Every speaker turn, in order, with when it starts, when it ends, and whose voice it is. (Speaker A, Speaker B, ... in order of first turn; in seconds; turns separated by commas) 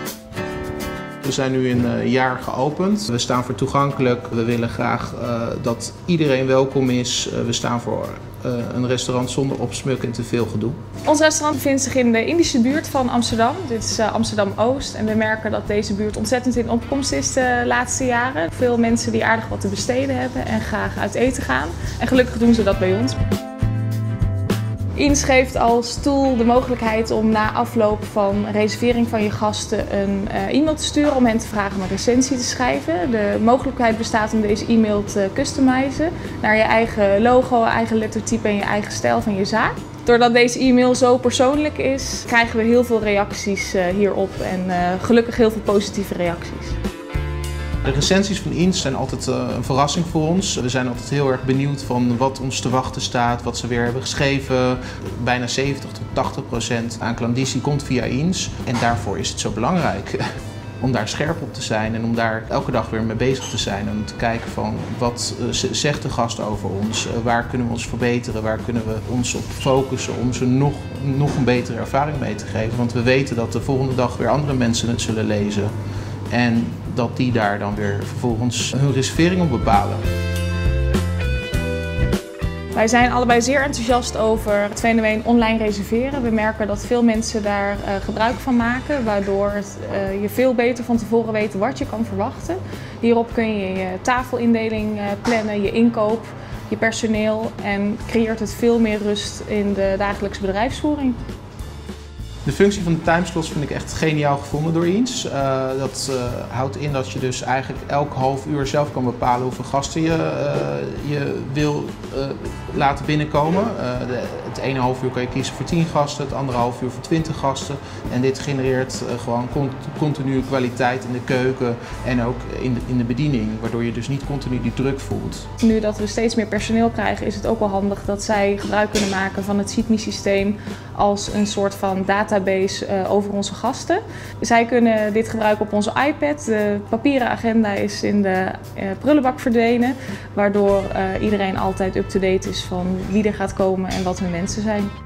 Speaker A: 1.2-10.8, Speaker B: 11.0-23.2, Speaker B: 24.9-46.8, Speaker A: 47.8-60.3, Speaker A: 60.8-75.7, Speaker A: 76.3-80.0, Speaker B: 82.7-101.2, Speaker A: 102.4-125.5, Speaker B: 125.6-144.9